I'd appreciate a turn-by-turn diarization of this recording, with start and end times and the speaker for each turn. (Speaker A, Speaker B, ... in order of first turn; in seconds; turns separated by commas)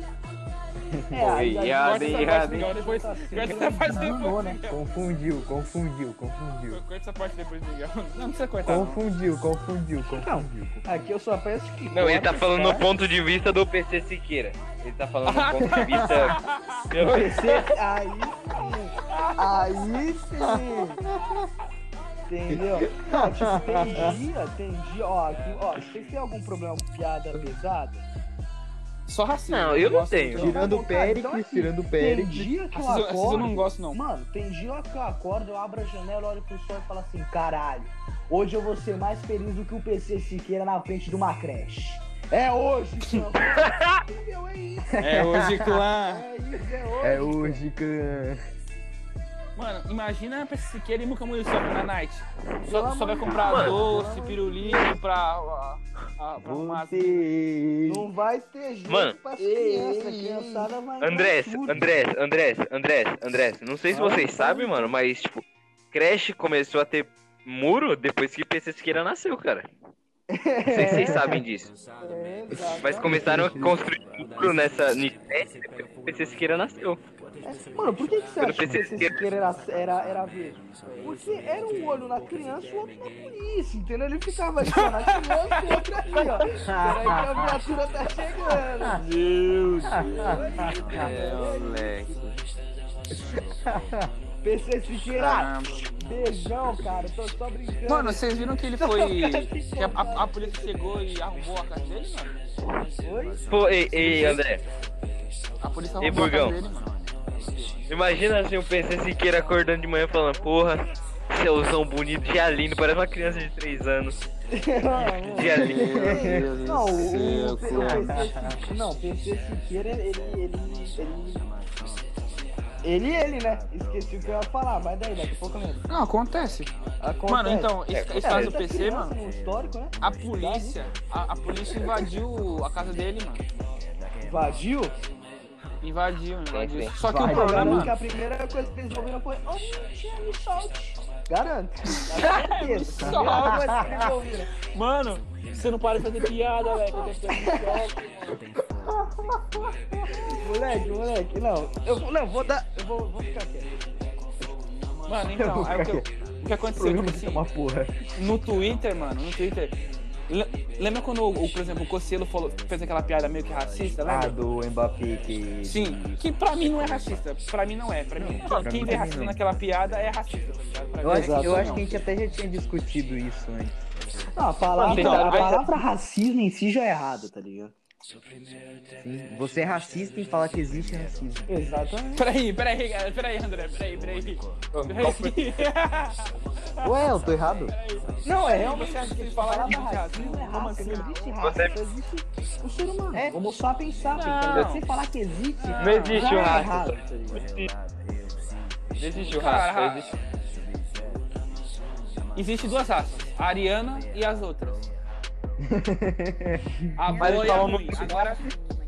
Speaker A: 0.9-1.3, Speaker B: 1.1-4.6, Speaker C: 1.1-2.8, Speaker D: 1.8-4.8, Speaker A: 4.7-6.8, Speaker D: 6.7-9.0, Speaker A: 8.6-11.1, Speaker B: 10.0-12.9, Speaker C: 11.9-17.8, Speaker D: 15.3-16.8, Speaker A: 15.8-16.2, Speaker B: 16.9-21.0, Speaker D: 19.1-19.4, Speaker A: 20.4-21.5, Speaker B: 22.3-28.0, Speaker A: 22.5-24.2, Speaker D: 29.1-30.6, Speaker C: 29.5-30.5, Speaker A: 30.3-32.5, Speaker B: 30.4-45.1, Speaker D: 32.7-34.0, Speaker C: 43.6-43.9, Speaker A: 44.9-45.9, Speaker D: 45.0-46.2, Speaker B: 46.0-47.6, Speaker A: 47.0-48.4, Speaker D: 49.5-57.2, Speaker B: 52.6-55.0, Speaker A: 56.4-58.1, Speaker B: 57.9-61.8, Speaker C: 58.9-59.2, Speaker A: 59.4-60.7, Speaker C: 61.0-69.7, Speaker B: 63.9-64.9, Speaker B: 70.3-71.3, Speaker C: 70.7-71.7, Speaker A: 70.8-71.4, Speaker B: 72.0-73.7, Speaker A: 72.5-73.8, Speaker C: 72.8-77.0, Speaker B: 77.4-89.0, Speaker C: 78.4-79.1, Speaker A: 78.6-78.9, Speaker D: 84.7-85.1, Speaker A: 86.4-87.6, Speaker D: 89.0-90.3, Speaker A: 89.9-91.1, Speaker B: 90.0-92.1, Speaker C: 90.9-91.9, Speaker D: 90.9-92.2, Speaker A: 93.6-94.1, Speaker B: 94.4-100.7, Speaker D: 95.1-95.8, Speaker D: 97.9-102.3, Speaker B: 103.0-103.4, Speaker C: 103.5-104.6, Speaker D: 104.0-104.4, Speaker D: 105.6-107.8, Speaker C: 106.0-106.6, Speaker C: 107.9-114.1, Speaker B: 114.5-121.5, Speaker D: 115.2-118.1, Speaker C: 115.2-115.9, Speaker A: 115.6-116.5, Speaker A: 117.7-118.6, Speaker B: 122.8-125.8, Speaker D: 125.9-126.7, Speaker B: 127.0-130.8, Speaker D: 127.3-129.2, Speaker C: 127.9-128.6, Speaker D: 130.0-133.4, Speaker B: 134.2-134.9, Speaker D: 135.8-137.9, Speaker C: 136.5-136.9, Speaker A: 137.0-137.9, Speaker B: 137.1-144.5, Speaker D: 142.1-143.7, Speaker A: 143.0-144.1, Speaker D: 144.7-148.0, Speaker B: 147.3-147.8, Speaker B: 150.3-153.7, Speaker D: 155.1-157.4, Speaker A: 155.4-156.1, Speaker A: 156.7-158.1, Speaker D: 158.2-159.8, Speaker D: 160.3-164.3, Speaker A: 164.0-167.2, Speaker D: 165.6-171.9, Speaker A: 168.2-169.4, Speaker C: 168.4-168.7, Speaker A: 171.0-173.7, Speaker B: 171.0-171.9, Speaker B: 174.3-177.8, Speaker C: 174.8-175.7, Speaker D: 174.8-175.7, Speaker A: 178.9-181.5, Speaker B: 181.5-182.3, Speaker D: 182.1-186.3, Speaker C: 184.7-185.5, Speaker A: 186.8-187.7, Speaker D: 187.7-191.1, Speaker B: 188.2-197.5, Speaker C: 191.4-191.7, Speaker D: 194.1-194.8, Speaker D: 195.6-196.6, Speaker C: 195.8-197.7, Speaker C: 199.0-200.2, Speaker D: 199.3-200.2, Speaker D: 202.3-204.9, Speaker A: 205.6-207.4, Speaker D: 206.9-208.5, Speaker C: 207.2-208.4